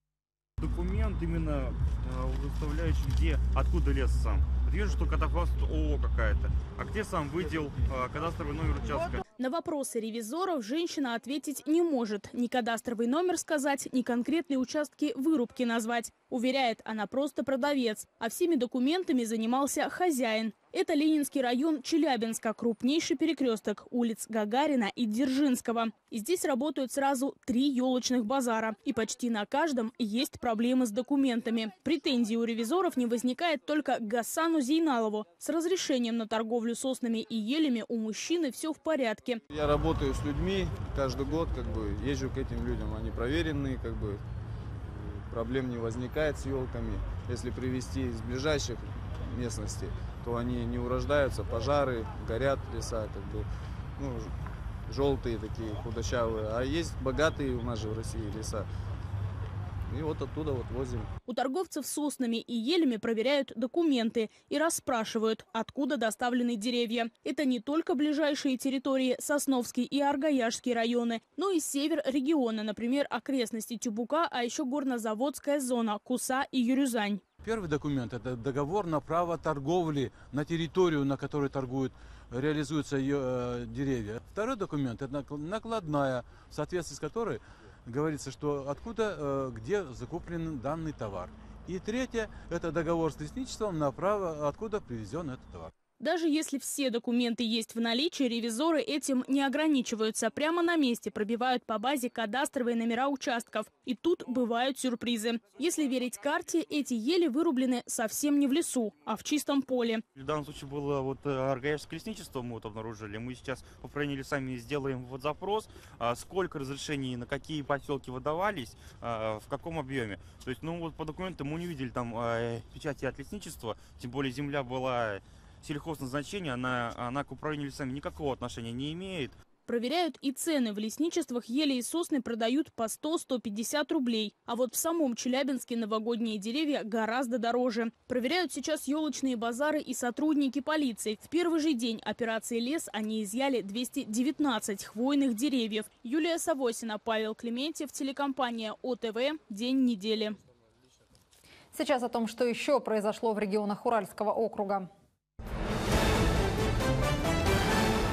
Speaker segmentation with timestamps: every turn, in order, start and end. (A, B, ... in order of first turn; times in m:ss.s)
0:00.6-0:09.2 A
0:09.4-0:39.4 B
0:39.5-0:44.2 C
0:44.8-0:53.5 C
0:54.0-0:54.3 C
0:54.9-0:58.7 C
0:59.9-1:01.1 C
1:01.3-1:17.2 B
1:17.4-1:35.7 D
1:36.0-1:50.0 B
1:50.2-2:09.4 A
2:09.7-2:30.4 B
2:31.7-2:34.9 E